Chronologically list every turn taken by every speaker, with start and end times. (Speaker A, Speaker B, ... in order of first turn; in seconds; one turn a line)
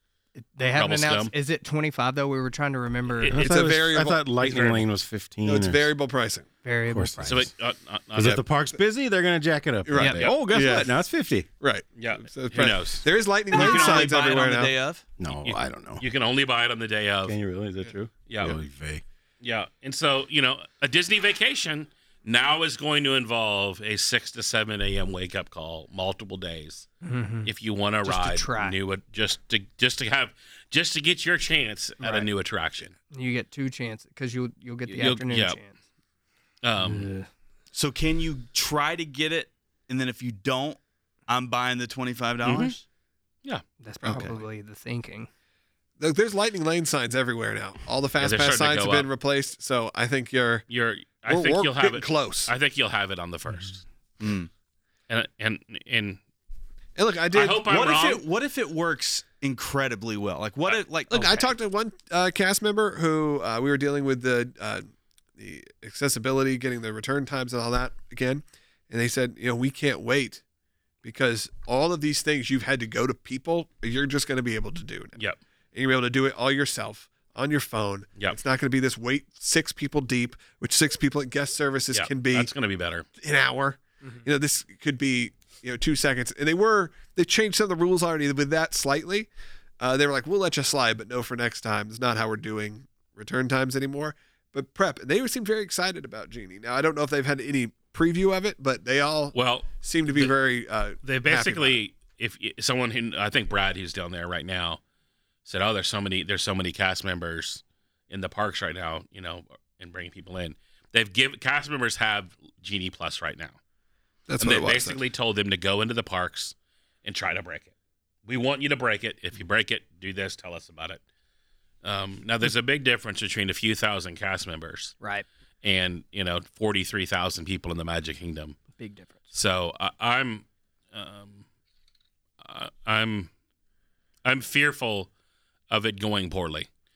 Speaker A: 0.3-3.5
Speaker B: 0.7-1.3
Speaker B: 3.1-3.8
Speaker C: 3.3-5.9
Speaker D: 3.3-4.2
Speaker B: 4.3-4.9
Speaker D: 5.4-6.5
Speaker A: 6.6-7.5
Speaker C: 6.9-7.5
Speaker B: 7.2-8.4
Speaker C: 8.1-11.5
Speaker D: 9.8-10.9
Speaker B: 10.0-10.3
Speaker D: 11.6-14.7
Speaker B: 12.0-13.1
Speaker E: 13.5-15.0
Speaker C: 15.2-16.0
Speaker B: 15.3-17.4
Speaker C: 17.2-19.0
Speaker B: 18.3-18.6
Speaker B: 19.4-26.9
Speaker A: 27.0-27.5
Speaker B: 27.4-32.9
Speaker A: 28.0-28.8
Speaker A: 32.0-32.3
Speaker A: 33.1-35.8
Speaker B: 34.9-35.6
Speaker B: 36.6-37.1
Speaker A: 36.8-37.3
Speaker E: 37.7-42.8
Speaker B: 42.4-42.8
Speaker A: 43.8-45.3
Speaker D: 44.0-44.4
Speaker D: 46.0-50.6
Speaker B: 48.2-49.1
Speaker B: 50.7-53.8
Speaker D: 51.2-52.5
Speaker E: 54.2-54.5
Speaker B: 55.1-56.2
Speaker D: 57.0-57.6
Speaker B: 57.3-58.2
Speaker E: 57.6-61.5
Speaker D: 61.1-70.4
Speaker D: 71.0-75.2
Speaker D: 75.7-82.5
Speaker B: 81.9-83.0
Speaker D: 83.2-89.3
Speaker D: 89.8-101.8
Speaker B: 99.3-100.3
Speaker B: 101.0-104.8
Speaker B: 105.4-113.6
Speaker D: 114.3-115.0
Speaker B: 114.4-117.7
Speaker B: 118.2-121.0
Speaker B: 121.8-125.0
Speaker A: 125.0-125.2
Speaker B: 125.6-128.6
Speaker A: 128.7-129.2
Speaker B: 129.3-131.4
Speaker B: 132.4-133.3
Speaker B: 134.2-135.1
Speaker B: 135.7-136.7